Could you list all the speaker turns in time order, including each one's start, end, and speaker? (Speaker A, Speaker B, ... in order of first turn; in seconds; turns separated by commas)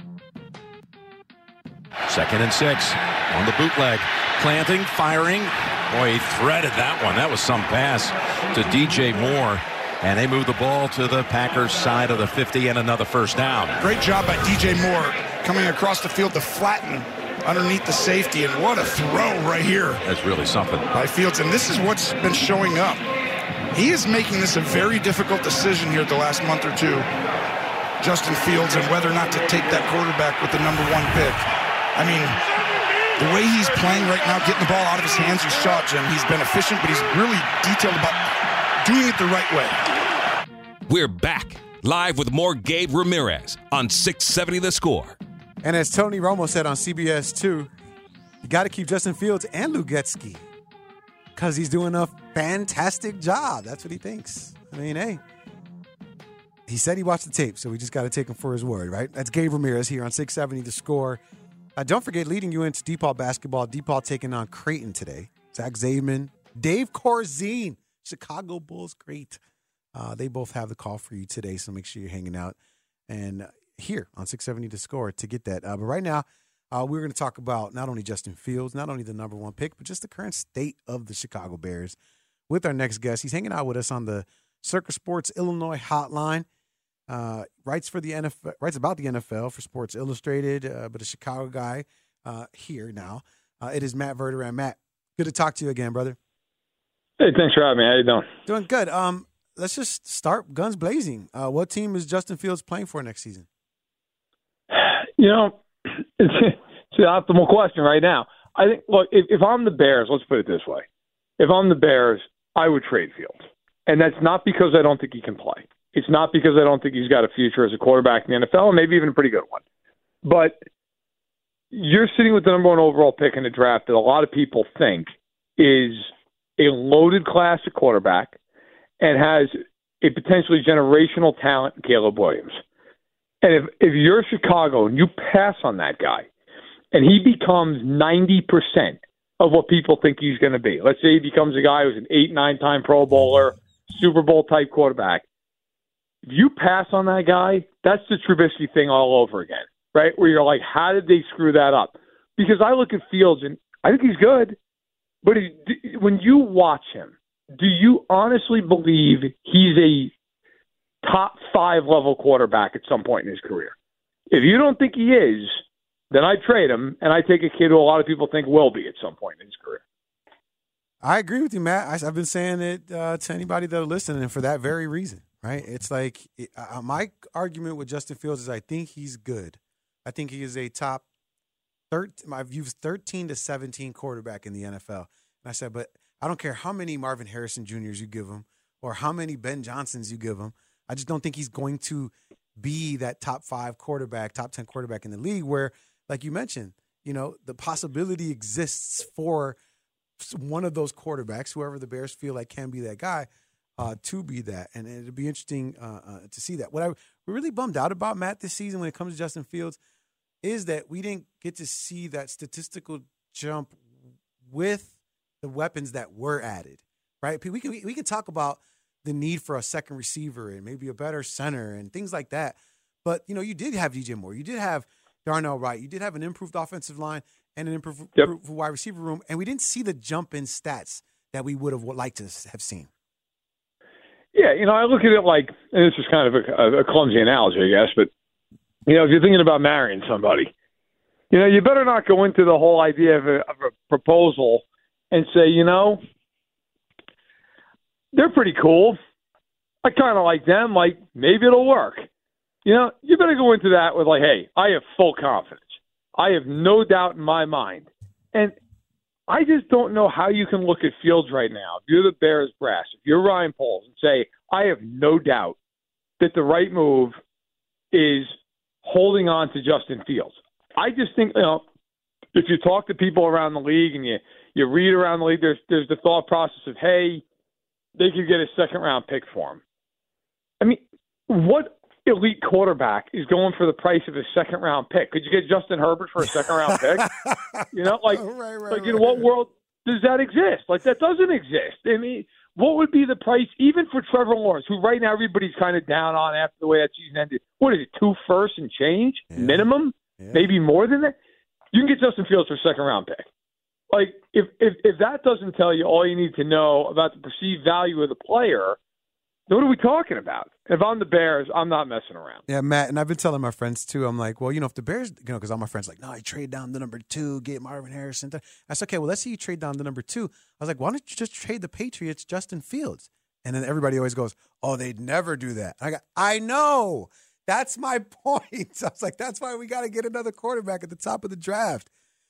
Speaker A: 2.1-13.8, Speaker B: 13.8-20.0, Speaker A: 20.0-20.9, Speaker B: 20.9-23.0, Speaker B: 23.7-27.1, Speaker B: 28.0-32.4, Speaker B: 33.2-38.3, Speaker B: 38.8-39.8, Speaker C: 40.9-45.2, Speaker D: 45.6-47.7, Speaker D: 48.4-50.4, Speaker D: 51.3-55.2, Speaker D: 56.7-61.2, Speaker D: 61.8-69.4, Speaker D: 69.9-72.5, Speaker D: 73.1-82.0, Speaker D: 82.5-86.5, Speaker D: 87.1-96.2, Speaker E: 97.2-98.2, Speaker D: 98.5-103.5, Speaker E: 104.7-110.8, Speaker E: 111.4-119.6, Speaker E: 120.2-120.6, Speaker E: 121.7-128.4, Speaker E: 129.0-132.6, Speaker E: 133.4-136.2, Speaker E: 136.9-145.2, Speaker E: 146.2-154.6, Speaker E: 155.2-160.1, Speaker E: 161.0-163.7, Speaker E: 164.3-169.8, Speaker D: 171.0-181.0, Speaker D: 181.9-199.6, Speaker D: 200.2-209.8, Speaker D: 210.4-213.8, Speaker D: 214.4-232.9, Speaker E: 234.3-238.1, Speaker E: 238.8-240.5, Speaker E: 241.3-246.0, Speaker E: 248.1-249.0, Speaker E: 249.8-252.1, Speaker E: 252.6-258.5, Speaker E: 259.3-265.6, Speaker E: 266.2-267.2, Speaker E: 267.9-271.6, Speaker E: 272.3-277.2, Speaker E: 277.9-279.6, Speaker E: 280.6-287.1, Speaker D: 286.9-289.3, Speaker E: 287.7-301.1, Speaker D: 299.3-300.5, Speaker E: 301.7-303.2, Speaker E: 303.9-308.8, Speaker E: 309.5-312.4, Speaker D: 312.5-331.9